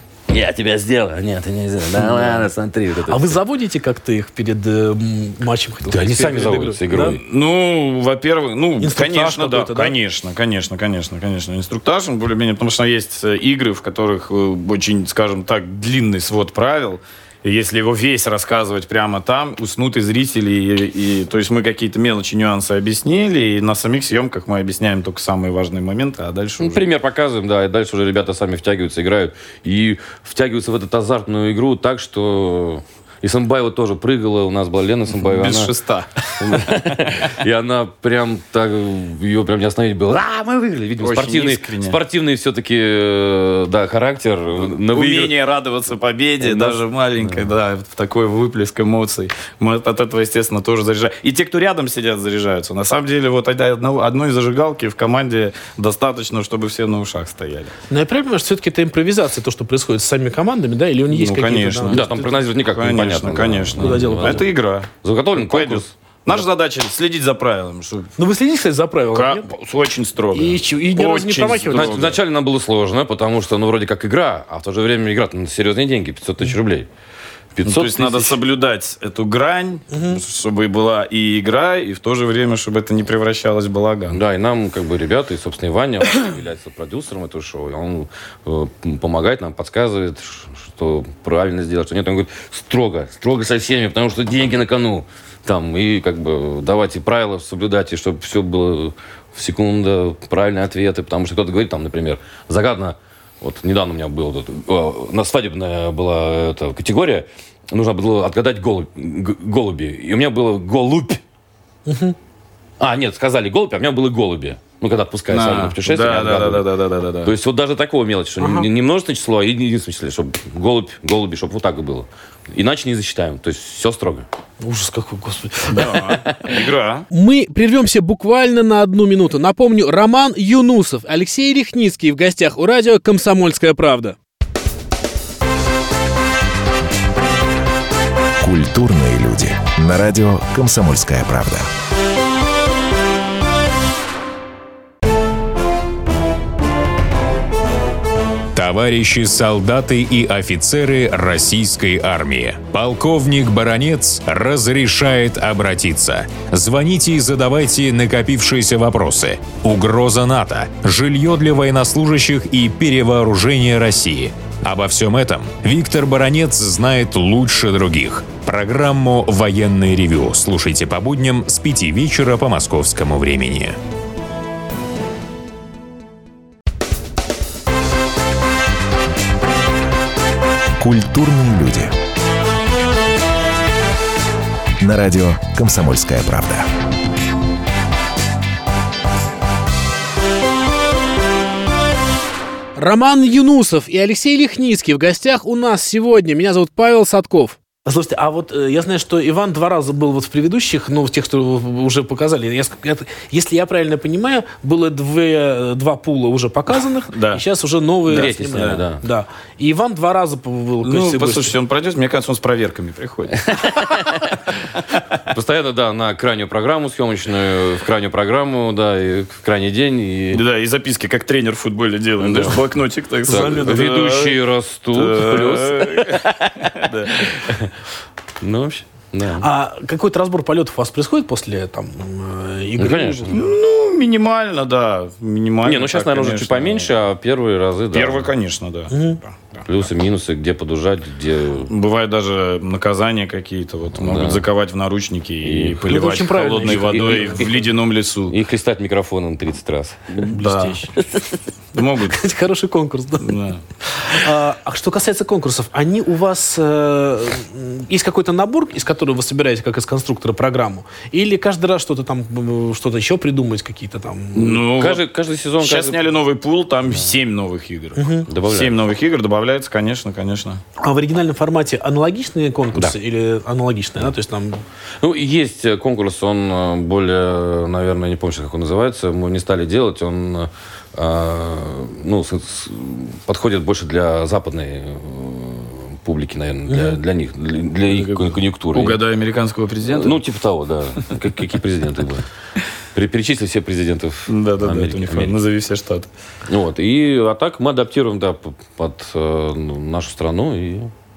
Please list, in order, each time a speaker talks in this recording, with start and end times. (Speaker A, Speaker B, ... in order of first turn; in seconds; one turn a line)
Speaker A: 0.3-3.4
Speaker B: 2.0-2.4
Speaker B: 3.1-7.2
Speaker A: 5.9-7.2
Speaker C: 7.0-26.8
Speaker B: 8.8-9.9
Speaker A: 26.6-35.7
Speaker C: 35.2-36.7
Speaker A: 36.4-45.3
Speaker C: 41.0-42.0
Speaker C: 44.9-57.7
Speaker A: 46.4-47.5
Speaker B: 57.9-62.0
Speaker C: 61.1-68.1
Speaker A: 61.9-66.4
Speaker B: 63.8-64.5
Speaker B: 68.2-69.4
Speaker C: 69.1-72.2
Speaker B: 70.3-72.2
Speaker A: 71.7-76.9
Speaker A: 77.5-78.4
Speaker C: 77.6-84.2
Speaker B: 79.9-80.2
Speaker A: 84.1-111.2
Speaker B: 111.9-112.2
Speaker A: 112.8-116.7
Speaker C: 115.3-117.3
Speaker A: 117.2-124.2
Speaker B: 118.4-118.7
Speaker B: 124.6-126.2
Speaker C: 125.7-127.1
Speaker B: 127.1-134.2
Speaker D: 138.4-141.7
Speaker E: 148.5-173.8
Speaker D: 180.8-181.9
Speaker D: 184.8-186.7
Speaker B: 192.8-211.5
Speaker C: 207.1-207.4
Speaker C: 208.1-208.8
Speaker A: 208.1-209.0
Speaker C: 210.8-213.7
Speaker A: 213.5-214.3
Speaker A: 215.2-220.4
Speaker C: 220.3-224.3
Speaker A: 222.2-222.7
Speaker B: 223.3-224.1
Speaker A: 223.3-227.7
Speaker C: 224.9-227.3
Speaker A: 228.4-229.4
Speaker B: 229.4-233.5
Speaker A: 232.8-233.4
Speaker C: 233.3-236.9
Speaker A: 235.6-238.3
Speaker C: 237.9-239.8
Speaker B: 238.9-239.2
Speaker A: 239.7-241.7
Speaker C: 241.7-248.3
Speaker A: 243.9-244.4
Speaker A: 245.4-247.6
Speaker B: 245.9-247.4
Speaker A: 248.3-250.3
Speaker B: 250.2-250.9
Speaker C: 250.3-250.8
Speaker C: 251.7-252.2
Speaker B: 252.1-253.3
Speaker C: 253.2-253.6
Speaker B: 253.9-264.6
Speaker C: 264.3-265.0
Speaker A: 264.4-266.1
Speaker C: 265.6-270.6
Speaker B: 268.0-268.3
Speaker A: 268.3-268.7
Speaker B: 270.8-274.6
Speaker A: 275.0-289.0
Speaker B: 286.7-287.0
Speaker C: 287.9-290.2
Speaker A: 289.9-292.2
Speaker A: 292.9-295.4
Speaker C: 294.3-296.1
Speaker A: 296.5-300.9